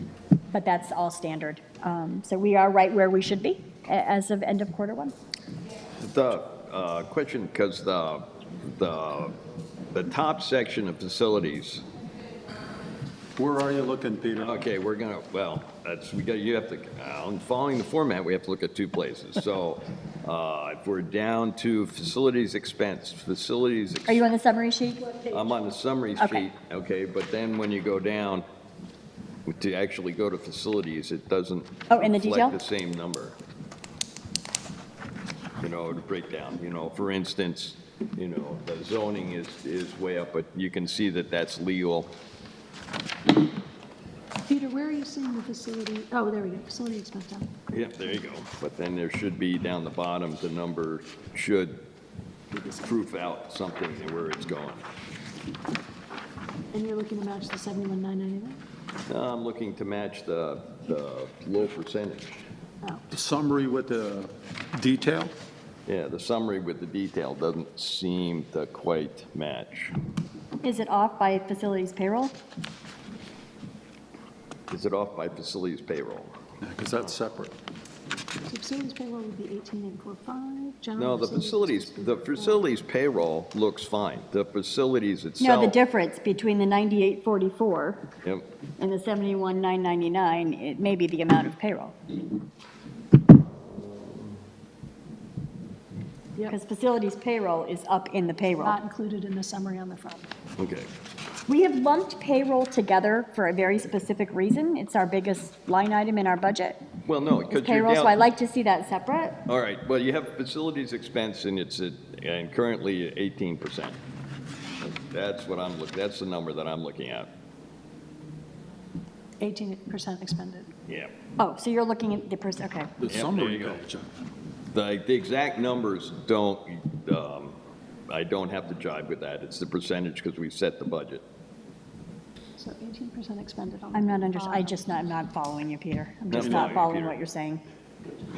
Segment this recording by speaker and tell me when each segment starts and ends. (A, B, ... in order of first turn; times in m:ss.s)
0:00.5-0:05.1 A
0:06.0-0:09.3 B
0:09.9-0:11.8 B
0:13.4-0:14.6 C
0:14.4-0:24.2 B
0:24.1-0:25.3 A
0:25.3-0:25.6 D
0:25.3-0:28.4 B
0:26.2-0:26.4 A
0:29.5-0:33.4 B
0:31.9-0:32.6 A
0:35.6-0:42.1 B
0:44.5-0:47.5 D
0:47.7-0:51.8 B
0:52.5-0:53.0 D
0:52.8-0:54.8 B
0:56.7-0:58.6 D
0:59.1-1:02.5 B
1:03.1-1:05.3 C
1:05.9-1:09.9 B
1:10.6-1:12.3 A
1:14.7-1:16.3 B
1:16.6-1:17.5 C
1:18.5-1:22.6 D
1:21.0-1:25.8 B
1:25.4-1:28.1 A
1:28.8-1:32.0 A
1:36.5-1:38.8 A
1:38.6-1:40.3 D
1:40.6-1:40.9 B
1:41.5-1:46.8 A
1:47.0-1:48.2 B
1:47.5-1:49.4 A
1:49.5-1:54.0 B
1:54.8-1:57.3 B
1:59.4-2:00.7 D
2:00.9-2:01.1 B
2:01.4-2:02.9 A
2:03.0-2:04.1 C
2:03.1-2:03.8 B
2:04.7-2:07.6 B
2:08.1-2:11.2 B
2:12.6-2:14.7 D
2:13.9-2:17.6 A
2:16.3-2:17.2 B
2:16.4-2:16.7 C